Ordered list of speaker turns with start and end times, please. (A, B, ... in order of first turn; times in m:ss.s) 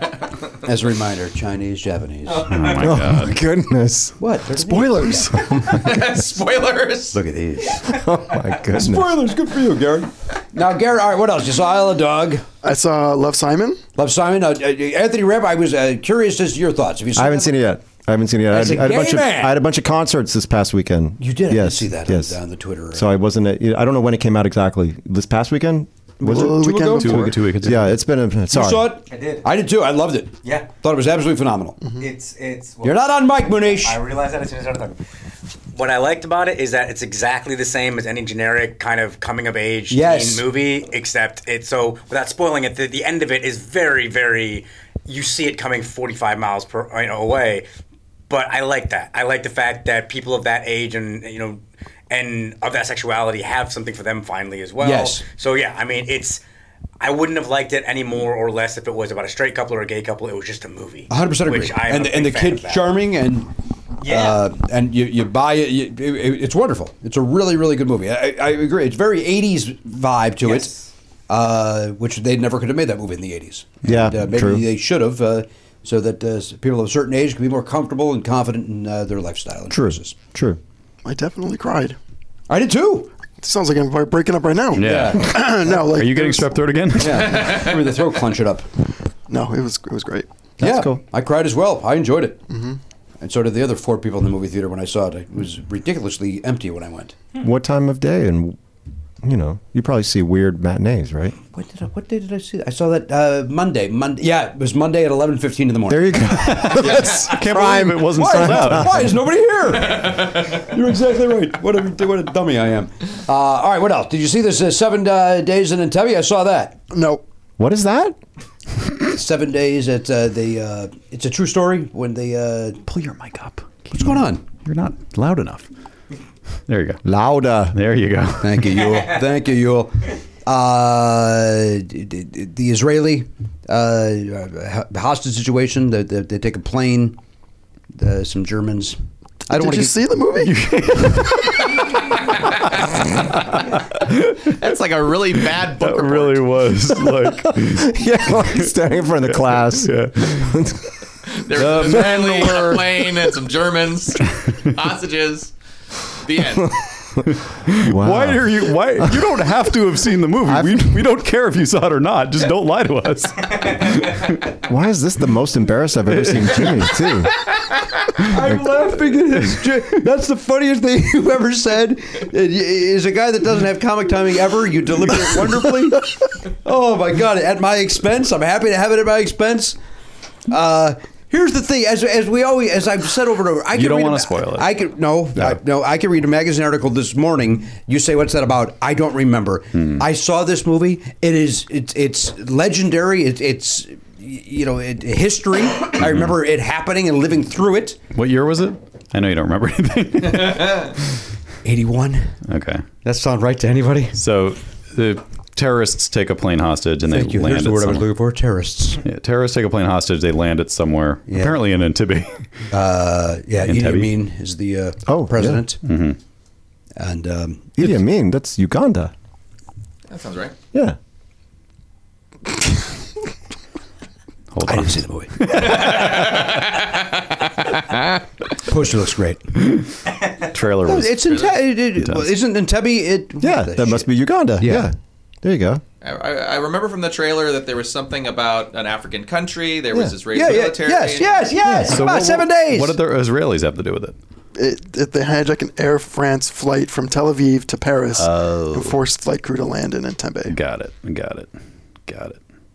0:00.6-0:02.6 A
0:02.4-0:03.4 B
0:02.6-0:04.2 C
0:04.2-0:06.0 A
0:04.6-0:05.5 D
0:05.5-0:05.8 C
0:05.7-0:07.2 E
0:07.1-0:12.4 A
0:07.9-0:09.3 C
0:12.6-0:13.8 D
0:14.0-0:17.6 A
0:17.2-0:22.4 C
0:18.5-0:19.6 A
0:21.2-0:23.1 A
0:22.9-0:26.6 C
0:26.2-0:27.3 A
0:26.2-0:27.3 D
0:27.0-0:28.0 B
0:27.2-0:29.0 C
0:28.5-0:31.8 A
0:29.1-0:29.4 F
0:32.0-0:33.0 F
0:32.8-0:34.0 A
0:33.8-0:35.0 F
0:35.7-0:47.7 F
0:39.9-0:40.5 A
0:48.3-0:56.4 F
0:54.8-0:55.3 A
0:57.0-1:02.9 F
1:01.1-1:03.5 A
1:04.0-1:10.7 A
1:04.0-1:04.4 F
1:10.5-1:10.7 F
1:11.3-1:20.2 A
1:13.8-1:14.7 C
1:19.7-1:20.6 C
1:21.0-1:22.0 D
1:22.5-1:23.1 A
1:23.4-1:26.6 D
1:24.8-1:27.5 B
1:24.8-1:25.3 A
1:27.0-1:28.7 A
1:29.3-1:30.3 D
1:30.6-1:31.0 C
1:30.6-1:32.4 A
1:32.5-1:32.8 D
1:33.2-1:37.2 A
1:37.4-1:38.6 C
1:39.2-1:41.4 C
1:41.5-1:56.8 A
1:45.9-1:49.1 C
1:46.5-1:49.0 B
1:56.9-1:57.2 D
1:57.6-1:58.2 C
1:59.1-2:02.8 A
2:02.9-2:05.7 B
2:03.9-2:04.4 A
2:06.7-2:07.0 B
2:07.0-2:07.8 C
2:07.7-2:08.7 B
2:08.4-2:17.2 A
2:18.0-2:19.0 A
2:19.5-2:20.0 A
2:19.5-2:20.6 D
2:20.4-2:22.3 B
2:23.3-2:24.5 B
2:24.5-2:26.4 E
2:25.8-2:28.7 B
2:27.4-2:30.9 C
2:29.2-2:30.6 B
2:31.3-2:35.5 E
2:31.6-2:32.8 B
2:36.2-2:36.8 E
2:37.6-2:44.5 B
2:37.8-2:39.3 C
2:40.5-2:41.0 C
2:44.7-2:47.3 C
2:46.3-2:46.7 B
2:48.2-2:59.8 A
3:00.5-3:18.0 A
3:03.7-3:04.8 B
3:16.0-3:16.3 B
3:18.1-3:21.0 B
3:21.6-3:22.4 A
3:22.5-3:22.9 B
3:23.0-3:24.2 A
3:24.2-3:28.1 B
3:27.1-3:29.0 A
3:29.0-3:32.5 B
3:31.3-3:31.6 A
3:32.7-3:35.8 A
3:33.6-3:34.1 B
3:35.1-3:35.6 C
3:35.8-3:36.2 B
3:37.0-3:37.9 A
3:37.8-3:39.1 C
3:40.1-3:40.6 E
3:44.5-3:46.6 B
3:44.7-3:46.0 A
3:45.7-3:47.1 E
3:48.6-3:49.5 A
3:50.4-3:51.4 B
3:50.9-3:54.9 A
3:51.3-3:51.5 E
3:52.0-3:52.3 B
3:53.4-3:55.8 C
3:56.0-4:01.5 E
4:00.3-4:03.0 A
4:01.6-4:02.0 C
4:01.9-4:04.2 B
4:04.6-4:10.6 D
4:08.2-4:09.0 B
4:10.5-4:11.5 B
4:12.1-4:12.4 B